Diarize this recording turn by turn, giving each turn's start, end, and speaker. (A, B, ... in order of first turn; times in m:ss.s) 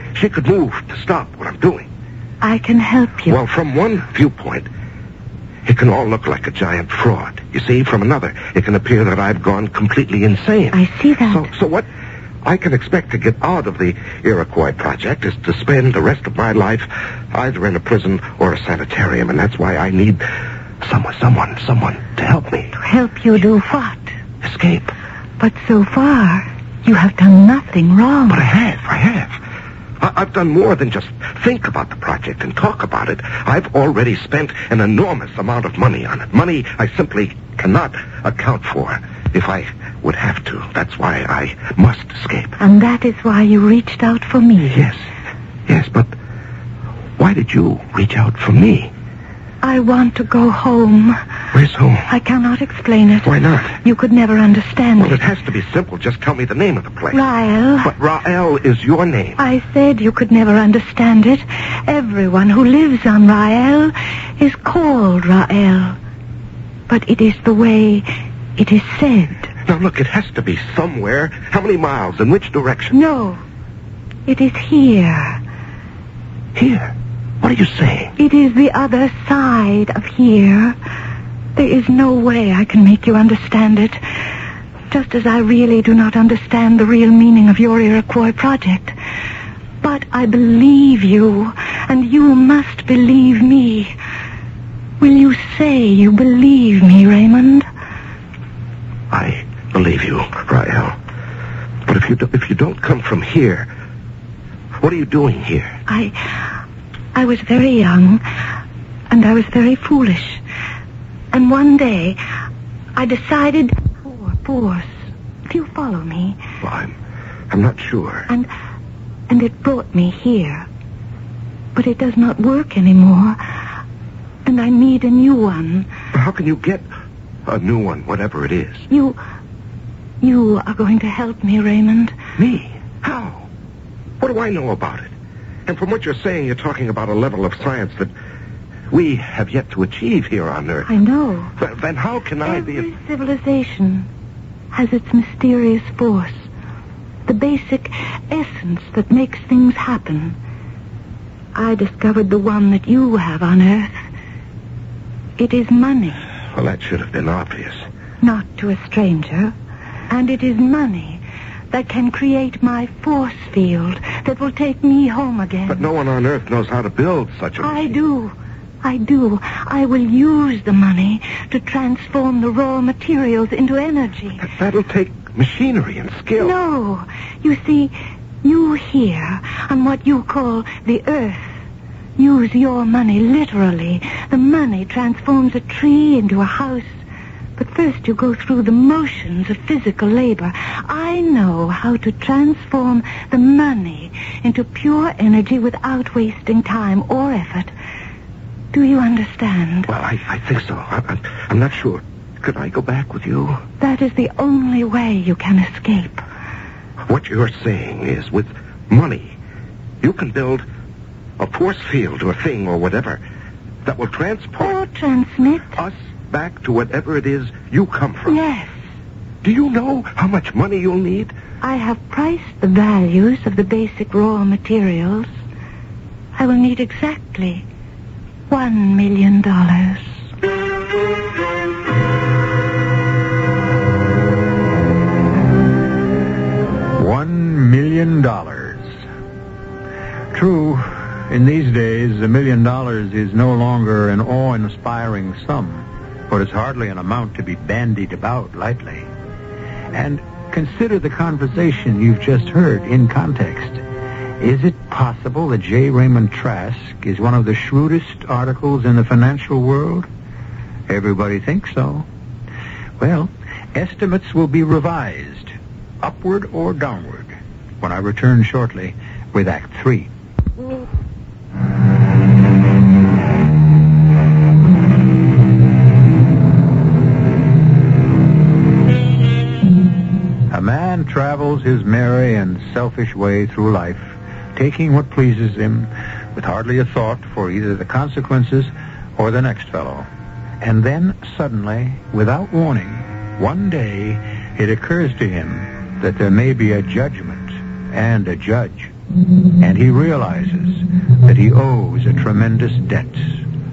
0:00.1-0:01.9 A
0:02.4-0:03.4 B
0:03.3-0:04.7 A
0:05.7-0:11.9 A
0:10.7-0:11.5 B
0:12.4-0:20.2 A
0:20.8-0:22.7 A
0:22.7-0:24.1 B
0:24.4-0:24.9 A
0:25.4-0:28.4 B
0:28.3-0:29.4 A
0:30.0-0:42.6 A
0:42.6-0:44.8 B
0:44.7-0:45.0 A
0:45.7-0:46.1 A
0:47.2-0:48.9 A
0:49.6-0:51.2 B
0:51.5-0:52.1 A
0:52.1-0:55.2 B
0:53.2-0:53.8 A
0:55.0-0:57.2 A
0:57.1-0:57.9 B
0:57.8-0:59.4 A
0:59.4-1:06.0 B
1:06.9-1:09.5 B
1:09.7-1:13.0 A
1:12.9-1:13.4 B
1:14.3-1:15.4 B
1:16.6-1:18.1 A
1:18.2-1:20.8 B
1:21.6-1:24.0 B
1:24.9-1:29.0 B
1:29.8-1:34.0 B
1:35.0-1:37.7 B
1:39.1-1:41.0 A
1:41.9-1:43.7 A
1:44.8-1:45.8 A
1:45.9-1:46.6 B
1:47.2-1:48.2 B
1:49.1-1:50.4 B
1:51.3-1:52.2 B
1:53.0-1:56.4 B
1:56.6-1:57.0 A
1:57.5-1:58.3 A
1:59.3-2:00.7 B
2:01.8-2:03.4 B
2:04.4-2:05.9 B
2:06.1-2:06.9 A
2:07.5-2:08.9 A
2:08.9-2:09.2 B
2:10.2-2:12.2 B
2:12.4-2:13.5 A
2:14.2-2:15.1 A
2:15.7-2:18.1 A
2:18.9-2:20.9 A
2:20.9-2:21.5 B
2:21.6-2:22.9 A
2:22.4-2:24.1 B
2:24.7-2:26.5 B
2:27.3-2:30.4 B
2:31.6-2:34.0 B
2:35.4-2:36.2 B
2:36.5-2:37.8 A
2:38.2-2:39.6 B
2:40.1-2:45.9 B
2:45.7-2:48.0 A
2:47.6-2:54.5 B
2:54.4-2:56.6 A
2:56.4-3:01.6 B
3:02.2-3:07.0 B
3:07.6-3:17.7 B
3:18.7-3:19.9 B
3:19.9-3:23.6 A
3:23.8-3:26.2 B
3:27.1-3:29.4 A
3:30.0-3:30.6 A
3:31.4-3:33.2 A
3:33.8-3:34.8 A
3:34.6-3:35.8 B
3:35.8-3:38.4 A
3:38.3-3:38.7 B
3:39.4-3:41.3 A
3:41.6-3:45.3 B
3:46.4-3:47.6 B
3:48.5-3:50.2 B
3:57.0-3:58.9 C
4:00.3-4:09.1 C
4:09.9-4:13.8 C
4:14.4-4:20.1 C
4:20.9-4:22.1 C
4:23.0-4:30.1 C
4:40.5-4:50.1 C
4:50.6-4:58.9 C
4:59.6-5:03.4 C